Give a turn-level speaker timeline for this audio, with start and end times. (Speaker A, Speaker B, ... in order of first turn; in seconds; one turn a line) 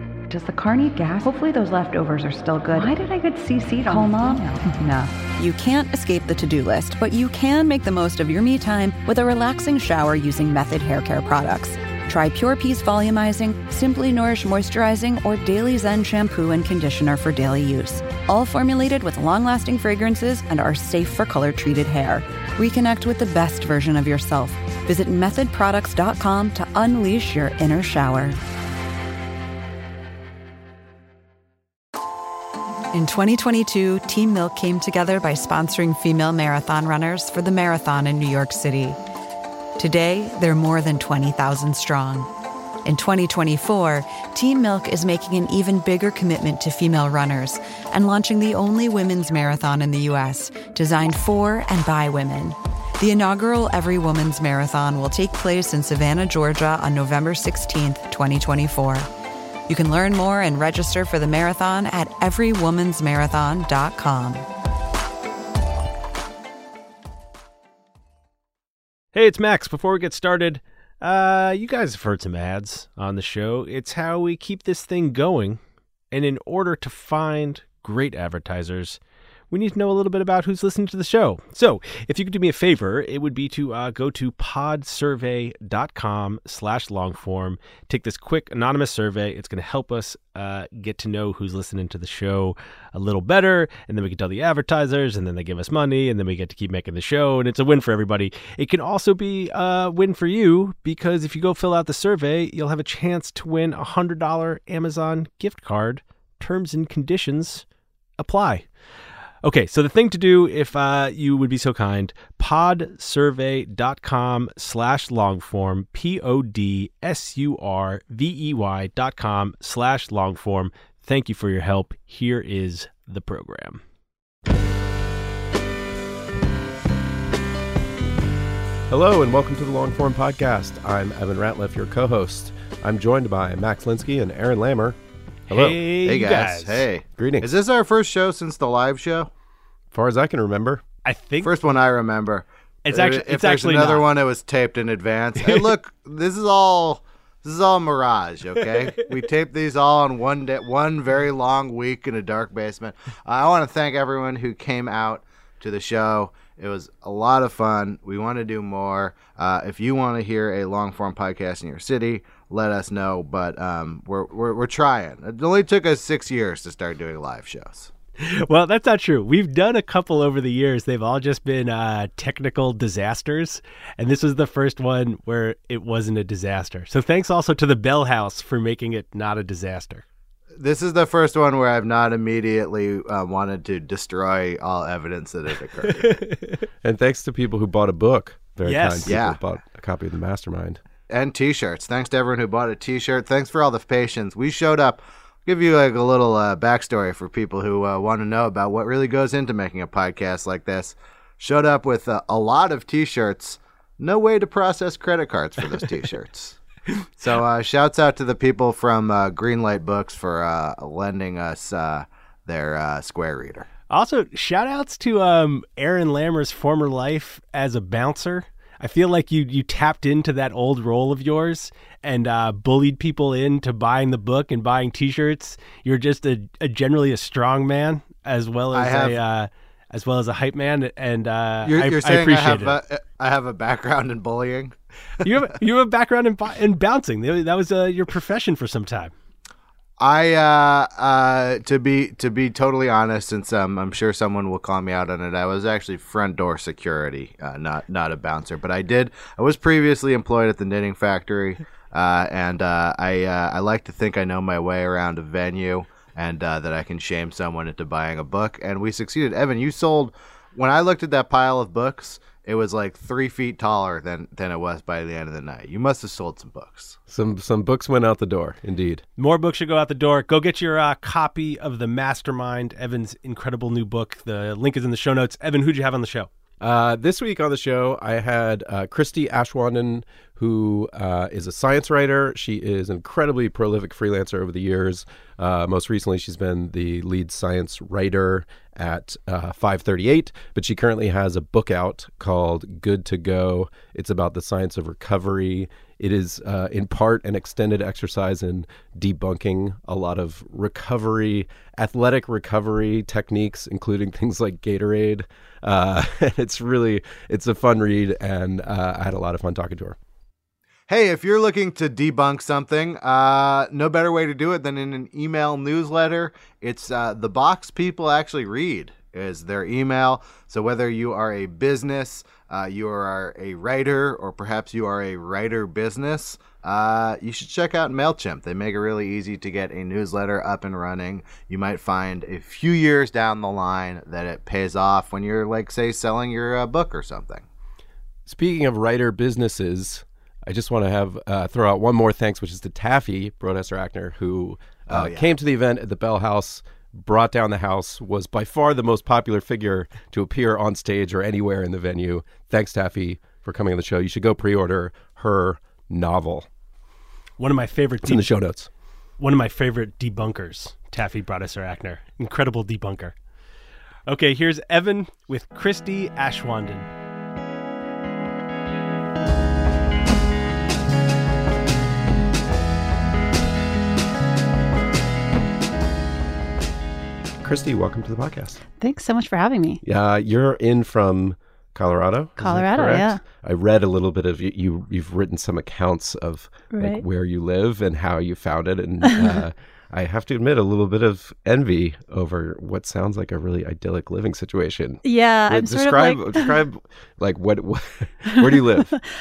Speaker A: 0.3-28.4
Speaker A: 32.9-39.0
Speaker A: 39.8-42.3
Speaker A: 42.8-59.1
Speaker A: 59.7-64.5
Speaker B: 69.1-75.6
Speaker B: 76.1-107.6
Speaker B: 108.2-108.7
Speaker B: 109.4-123.8
Speaker C: 128.9-135.0
Speaker B: 135.5-136.9
Speaker C: 135.5-135.9
Speaker D: 136.0-139.3
Speaker C: 137.2-137.5
Speaker C: 139.9-140.8
Speaker B: 141.0-141.5
Speaker D: 141.4-167.9
Speaker B: 142.8-144.1
Speaker B: 168.2-180.0
Speaker D: 180.6-186.2
Speaker C: 186.8-190.8
Speaker B: 188.6-189.2
Speaker D: 189.1-189.4
Speaker D: 191.1-206.6
Speaker D: 207.2-213.7
Speaker B: 213.9-232.8
Speaker D: 228.7-229.2
Speaker D: 231.6-234.7
Speaker B: 235.2-239.1
Speaker D: 240.0-267.0
Speaker C: 267.1-269.0
Speaker B: 269.2-276.3
Speaker C: 276.6-310.0
Speaker D: 310.9-337.4
Speaker C: 338.3-356.5
Speaker D: 344.9-345.3
Speaker B: 357.4-358.3
Speaker C: 358.0-358.7
Speaker B: 359.2-363.1
Speaker B: 364.1-366.9
Speaker C: 377.4-378.6
Speaker E: 378.8-379.8
Speaker C: 379.8-398.9
Speaker E: 382.4-383.2
Speaker E: 386.7-387.0
Speaker E: 395.0-396.6